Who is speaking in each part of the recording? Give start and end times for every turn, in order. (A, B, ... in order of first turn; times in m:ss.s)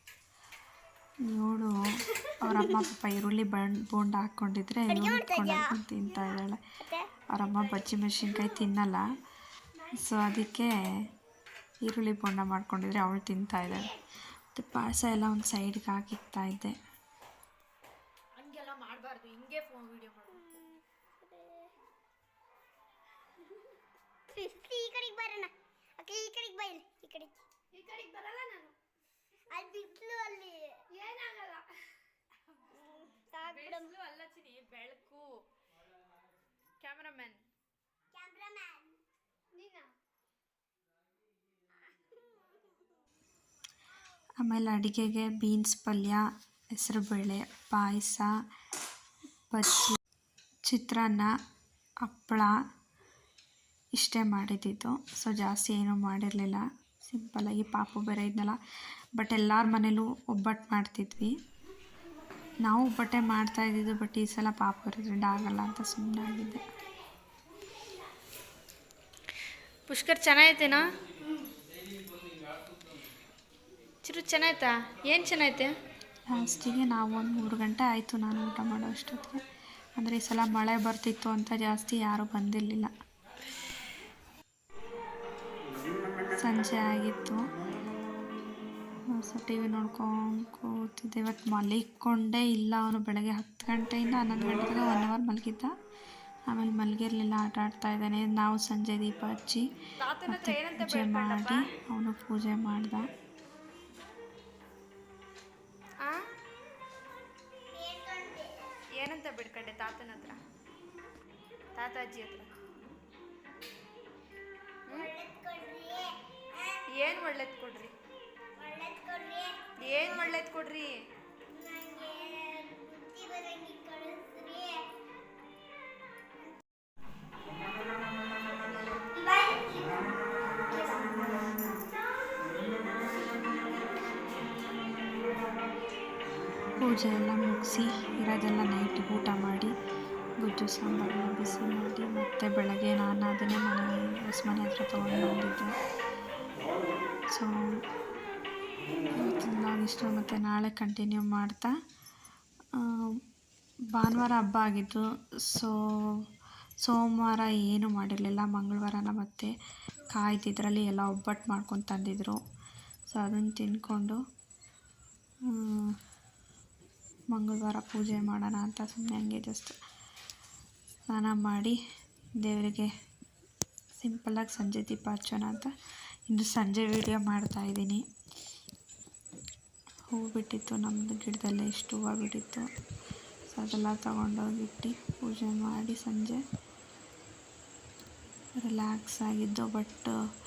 0:01.3-0:01.7 A
0:02.4-0:06.6 A
0:04.9-0:05.8 B
0:06.8-0:07.1 B
0:07.3-0:09.0 A
0:09.9-0:10.7 A
0:11.8-0:14.0 A
0:14.5-0:16.8 A
0:18.4-0:20.7 C
0:21.2-0:21.7 B
0:24.3-0:27.4 B
0:27.8-0:28.7 C
0:29.5-0:30.9 B
0:31.0-0:31.6 C
0:32.8-0:34.0 B
0:33.4-0:35.4 C
0:36.8-0:37.4 C
0:38.1-0:38.9 B
0:39.6-0:39.9 C
0:44.4-0:46.2 A
0:46.7-0:48.3 A
0:49.5-0:50.0 A
0:50.6-0:51.3 A
0:52.0-0:52.5 A
0:54.0-0:58.6 A
0:59.2-1:01.3 A
1:02.6-1:06.6 A
1:09.9-1:10.9 C
1:14.0-1:15.7 C
1:16.3-1:19.4 A
1:20.0-1:22.9 A
1:26.3-1:27.4 A
1:29.1-1:35.7 A
1:36.5-1:39.6 A
1:40.0-1:41.7 C
1:40.2-1:43.1 A
1:47.7-1:48.6 B
1:49.0-1:50.4 C
1:51.8-1:52.6 C
1:54.9-1:56.8 B
1:56.9-1:57.9 C
1:58.6-2:00.1 B
1:59.8-2:01.0 C
2:01.5-2:04.9 B
2:09.2-2:10.1 B
2:10.7-2:11.5 B
2:16.8-2:19.7 A
2:20.4-2:25.7 A
2:29.2-2:31.7 A
2:32.8-2:33.2 A
2:33.9-2:36.2 A
2:36.8-2:39.5 A
2:40.1-2:42.4 A
2:43.1-2:44.2 A
2:45.5-2:46.0 A
2:47.3-2:49.8 A
2:51.1-2:51.8 A
2:52.4-2:52.9 A
2:54.0-2:55.7 A
2:56.3-2:58.0 A
3:00.1-3:02.6 A
3:03.5-3:06.4 A
3:08.6-3:10.1 A